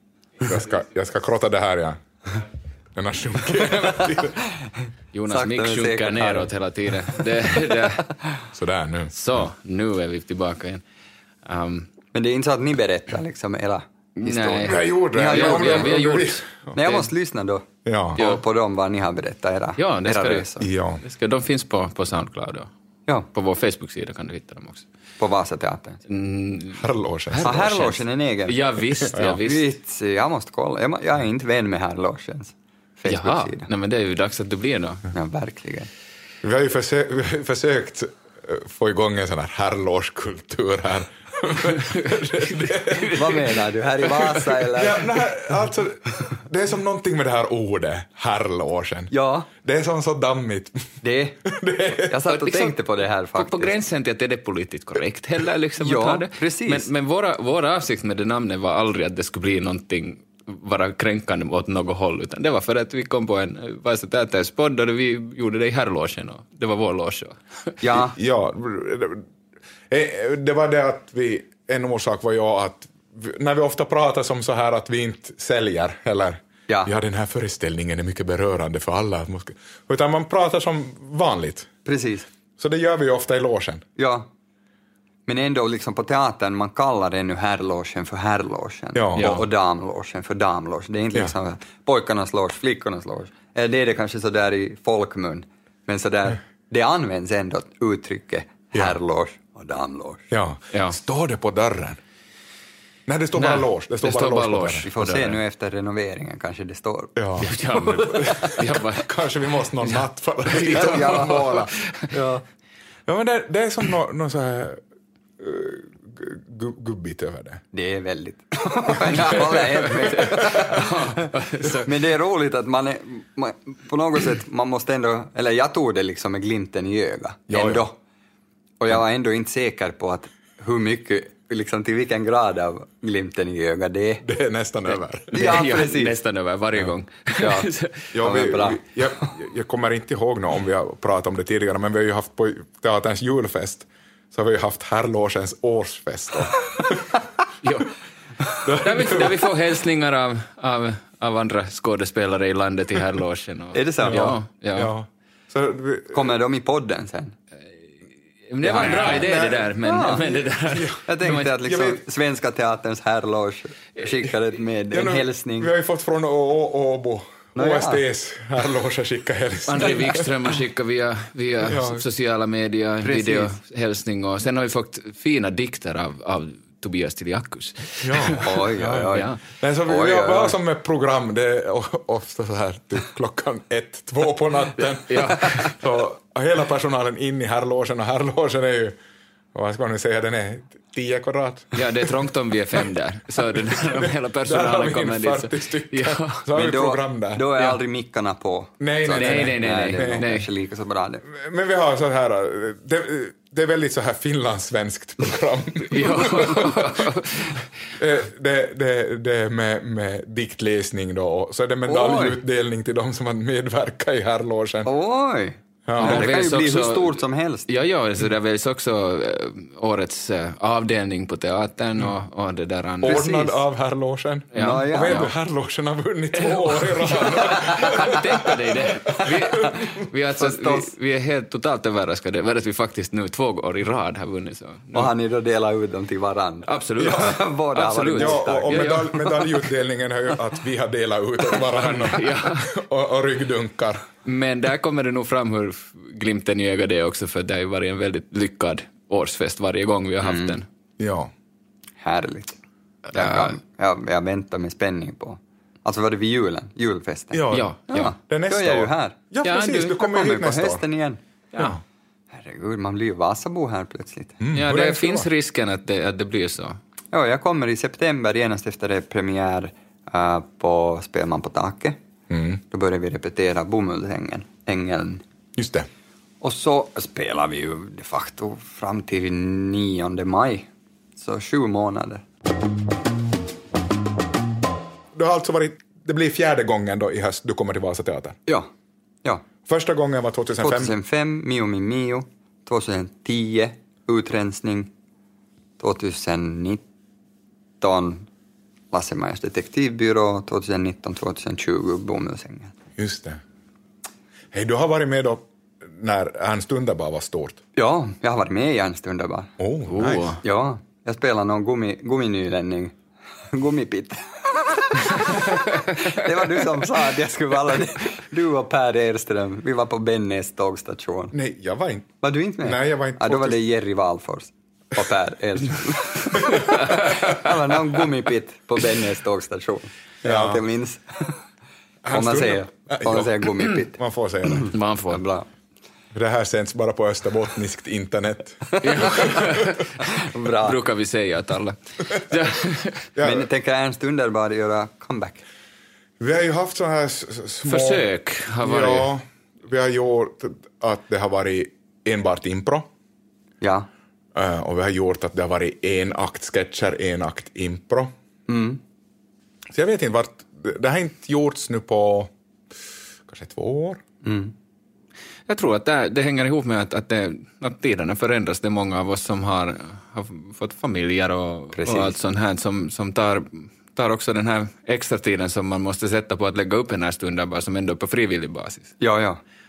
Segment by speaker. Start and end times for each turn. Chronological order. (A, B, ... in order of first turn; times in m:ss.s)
0:00.4-0:02.0 A
0:03.0-0:04.4 A
0:05.1-0:08.1 B
0:05.3-0:06.5 C
0:08.5-0:09.1 A
0:09.1-0:10.8 B
0:11.4-0:11.9 B
0:12.1-0:16.0 C
0:14.2-0:17.1 B
0:14.6-0:16.7 A
0:16.7-0:20.7 C
0:17.8-0:18.2 A
0:18.2-0:18.4 B
0:19.8-0:20.5 B
0:20.6-0:21.0 A
0:21.0-0:22.7 B
0:23.3-0:24.9 B
0:25.2-0:26.0 C
0:26.1-0:29.7 B
0:26.8-0:27.6 A
0:27.4-0:28.6 C
0:29.0-0:29.4 A
0:29.4-0:33.7 C
0:33.1-0:35.1 B
0:35.1-0:35.9 C
0:36.4-0:43.4 A
0:41.8-0:43.4 B
0:43.1-0:45.2 C
0:44.1-0:44.5 B
0:44.7-0:52.1 A
0:49.1-0:49.5 C
0:51.0-0:51.4 C
0:52.1-0:53.7 C
0:52.3-0:52.8 B
0:53.4-1:07.8 B
0:55.8-0:56.9 C
1:07.8-1:08.2 C
1:08.2-1:09.2 A
1:09.9-1:21.7 A
1:21.8-1:22.3 C
1:22.6-1:23.8 A
1:24.0-1:24.3 C
1:25.3-1:40.3 C
1:29.0-1:29.4 A
1:29.2-1:29.4 B
1:40.3-1:42.0 A
1:43.1-1:44.9 A
1:43.4-1:45.4 B
1:44.9-1:48.5 C
1:47.2-1:51.7 A
1:47.4-1:49.1 B
1:49.8-1:52.1 B
1:50.7-1:52.4 C
1:53.1-1:54.8 A
1:55.4-1:57.6 A
1:57.7-2:08.0 C
1:59.8-2:01.9 B
2:00.1-2:00.7 A
2:07.5-2:07.9 A
2:08.8-2:14.2 C
2:14.2-2:15.5 A
2:15.3-2:16.2 C
2:15.3-2:18.1 B
2:17.4-2:17.7 C
2:18.1-2:27.1 A
2:18.2-2:18.8 C
2:27.6-2:27.9 B
2:28.6-2:29.4 A
2:28.8-2:34.9 B
2:33.7-2:34.3 C
2:34.0-2:36.3 A
2:36.1-2:37.4 C
2:38.5-2:41.5 B
2:38.6-2:40.4 C
2:38.7-2:39.8 A
2:40.6-2:42.0 A
2:41.1-2:45.7 C
2:44.9-2:50.5 A
2:47.6-2:48.0 C
2:49.7-2:59.4 B
2:51.6-2:52.0 A
2:53.0-2:53.6 C
2:58.0-3:09.0 A
2:58.4-2:59.3 C
2:59.9-3:00.6 C
3:05.1-3:05.8 B
3:09.5-3:12.1 A
3:11.7-3:16.4 B
3:13.8-3:17.8 A
3:16.5-3:21.2 C
3:18.8-3:20.3 A
3:19.1-3:20.5 B
3:21.3-3:27.1 A
3:25.9-3:27.6 B
3:28.0-3:34.9 A
3:31.9-3:32.4 C
3:34.8-3:37.7 C
3:35.9-3:36.4 A
3:36.0-3:43.3 B
3:43.0-3:49.8 A
3:43.0-3:43.6 C
3:44.5-3:45.3 B
3:44.6-3:45.3 C
3:46.4-3:55.1 B
3:49.2-3:49.8 C
3:50.4-3:50.9 C
3:54.9-3:59.4 C
3:56.6-3:59.1 B
3:57.0-3:57.3 A
3:58.2-4:04.1 A
4:01.6-4:02.7 B
4:04.2-4:10.7 B
4:10.2-4:10.6 C
4:11.0-4:11.3 A
4:12.0-4:12.6 C
4:13.1-4:19.2 C
4:13.1-4:13.6 B
4:17.3-4:20.8 A
4:17.5-4:18.1 B
4:19.4-4:20.0 B
4:20.0-4:21.2 C
4:22.3-4:24.4 C
4:24.4-4:25.3 A
4:24.5-4:26.8 B
4:27.1-4:32.0 C
4:32.3-4:32.6 A
4:32.7-4:35.2 C
4:35.6-4:35.9 A
4:36.4-4:42.2 C
4:45.2-4:48.4 A
4:49.6-4:50.9 A
4:50.6-4:54.9 C
4:55.8-4:56.8 C
4:57.8-4:58.3 C
4:58.9-5:02.7 C
5:03.0-5:03.4 A
5:04.5-5:07.6 A
5:07.8-5:09.5 C
5:09.6-5:10.4 A
5:09.9-5:10.4 B
5:10.4-5:12.9 C
5:13.5-5:21.3 C
5:15.3-5:15.8 B
5:21.3-5:23.6 A
5:22.2-5:31.4 C
5:26.3-5:27.4 A
5:26.7-5:27.0 B
5:30.2-5:30.6 A
5:32.0-5:34.8 A
5:32.1-5:35.5 C
5:34.7-5:35.2 B
5:36.1-5:39.7 A
5:38.8-5:39.3 C
5:38.8-5:39.9 B
5:40.0-5:40.8 C
5:40.6-5:43.1 B
5:43.2-5:43.5 A
5:43.2-5:45.4 C
5:46.2-5:48.1 A
5:47.6-5:49.1 B
5:48.6-5:52.9 A
5:53.6-5:53.9 C
5:54.4-5:58.1 A
5:58.5-5:58.8 C
5:59.7-6:02.3 A
6:03.3-6:04.0 A
6:04.2-6:04.5 C
6:05.5-6:19.0 B
6:11.7-6:12.2 C
6:19.0-6:19.4 C